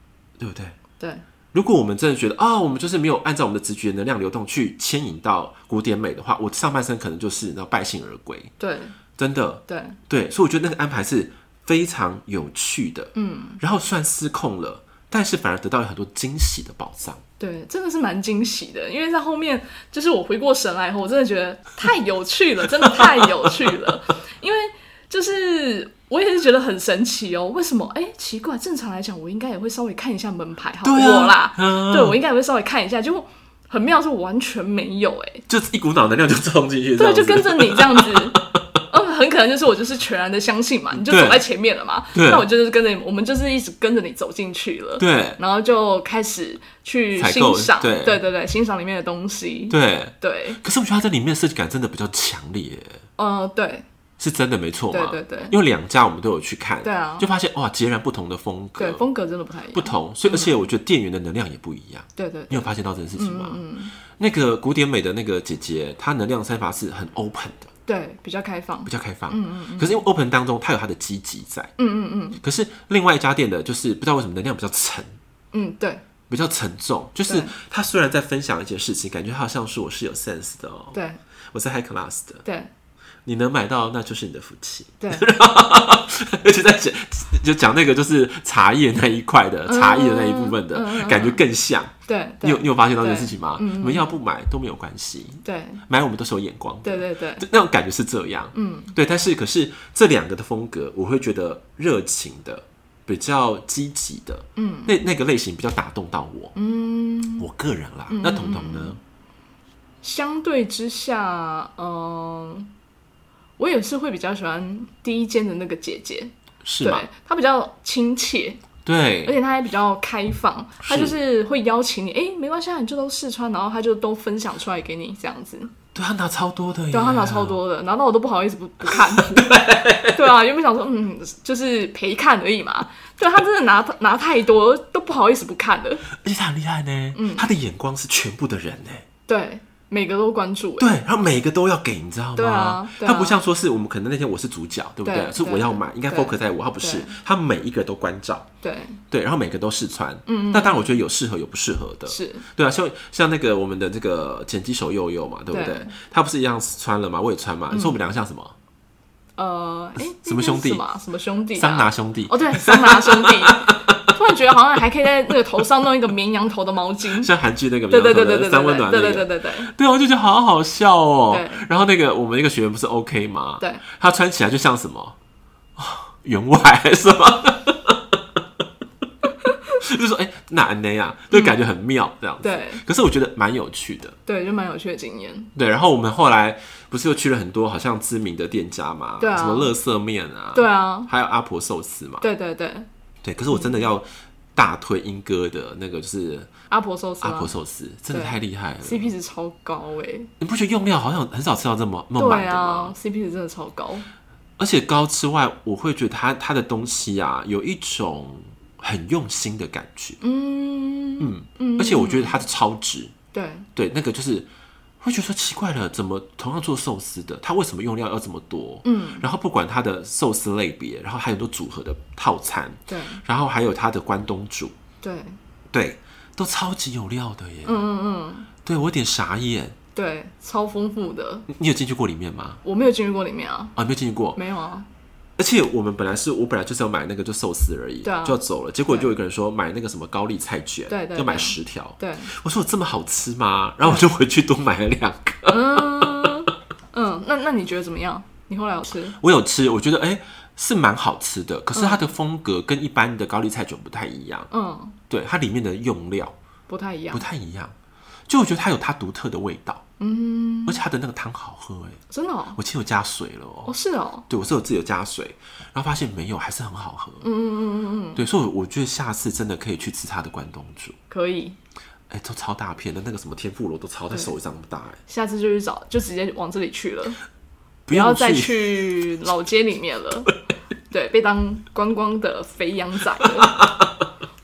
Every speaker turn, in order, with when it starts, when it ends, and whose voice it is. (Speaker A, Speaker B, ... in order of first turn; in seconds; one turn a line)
Speaker A: 0.4-0.7
Speaker B: 1.0-1.2
Speaker A: 1.5-8.5
Speaker B: 8.6-8.9
Speaker A: 9.2-17.2
Speaker B: 9.7-10.0
Speaker B: 13.1-13.6
Speaker B: 17.4-35.4
Speaker A: 30.8-32.2
Speaker A: 35.5-38.6
Speaker B: 37.0-50.6
Speaker A: 40.9-41.4
Speaker A: 42.1-42.5
Speaker A: 45.0-45.4
Speaker A: 47.2-48.2
Speaker A: 49.7-53.0
Speaker B: 53.2-53.9
Speaker A: 54.2-59.0
Speaker B: 54.9-55.5
Speaker B: 56.8-57.2
Speaker B: 58.8-60.5
Speaker A: 59.7-67.7
Speaker B: 62.1-63.9
Speaker B: 67.8-70.0
Speaker A: 68.8-71.7
Speaker B: 71.8-72.4
Speaker A: 72.4-75.2
Speaker B: 75.5-76.0
Speaker A: 76.3-81.0
Speaker B: 77.3-77.5
Speaker B: 80.9-81.2
Speaker A: 81.5-82.4
Speaker B: 82.4-82.7
Speaker A: 83.2-106.5
Speaker B: 85.0-85.2
Speaker B: 89.7-91.4
Speaker B: 92.0-94.2
Speaker B: 95.4-95.8
Speaker B: 96.8-97.4
Speaker B: 98.5-98.9
Speaker B: 104.5-105.0
Speaker B: 106.5-107.5
Speaker A: 107.4-109.0
Speaker B: 108.1-109.0
Speaker B: 110.0-112.7
Speaker B: 113.6-118.6
Speaker A: 116.6-117.1
Speaker A: 118.8-119.3
Speaker B: 119.2-125.7
Speaker A: 120.8-121.2
Speaker A: 125.9-127.6
Speaker B: 126.9-136.0
Speaker A: 128.9-130.2
Speaker A: 136.2-139.0
Speaker B: 137.1-137.5
Speaker B: 139.3-141.0
Speaker A: 140.8-148.5
Speaker B: 142.3-143.4
Speaker B: 145.0-147.2
Speaker B: 148.6-149.0
Speaker A: 149.1-158.5
Speaker B: 150.3-151.0
Speaker B: 152.1-152.4
Speaker B: 155.5-155.9
Speaker B: 157.7-158.0
Speaker B: 159.3-167.3
Speaker A: 160.0-160.8
Speaker A: 161.5-164.1
Speaker A: 167.1-175.2
Speaker B: 167.9-169.7
Speaker B: 171.3-171.7
Speaker A: 175.8-178.0
Speaker A: 179.8-184.2
Speaker B: 181.3-181.6
Speaker B: 182.4-182.8
Speaker B: 184.2-185.5
Speaker A: 185.5-192.2
Speaker B: 189.2-189.8
Speaker B: 190.5-191.1
Speaker B: 192.2-192.9
Speaker A: 193.2-196.5
Speaker B: 193.5-193.8
Speaker B: 196.7-197.5
Speaker A: 197.2-199.1
Speaker B: 198.1-200.3
Speaker A: 200.4-202.9
Speaker B: 202.2-204.1
Speaker A: 204.6-210.2
Speaker B: 210.2-212.4
Speaker A: 211.2-213.1
Speaker B: 213.3-213.7
Speaker A: 213.7-214.5
Speaker A: 215.0-224.7
Speaker B: 218.8-219.2
Speaker B: 222.9-223.2
Speaker B: 225.0-225.4
Speaker A: 225.7-227.9
Speaker B: 227.6-228.5
Speaker A: 228.6-229.8
Speaker B: 229.9-231.5
Speaker A: 231.5-232.6
Speaker B: 232.6-233.7
Speaker A: 233.8-234.4
Speaker B: 234.3-234.9
Speaker A: 235.4-246.4
Speaker B: 238.0-239.1
Speaker B: 240.9-242.3
Speaker B: 245.5-249.2
Speaker A: 249.2-254.5
Speaker B: 251.7-252.1
Speaker B: 254.5-255.0
Speaker A: 255.1-256.3
Speaker B: 256.7-257.2
Speaker A: 257.1-257.7
Speaker A: 258.3-259.8
Speaker B: 260.0-260.8
Speaker A: 260.6-262.0
Speaker B: 262.1-262.6
Speaker A: 262.5-263.7
Speaker B: 263.6-264.2
Speaker A: 264.3-267.3
Speaker B: 267.2-268.2
Speaker A: 268.1-271.0
Speaker B: 271.1-271.6
Speaker A: 272.1-275.0
Speaker B: 275.1-277.2
Speaker A: 277.9-278.9
Speaker B: 277.9-280.3
Speaker B: 280.9-283.5
Speaker A: 283.3-284.0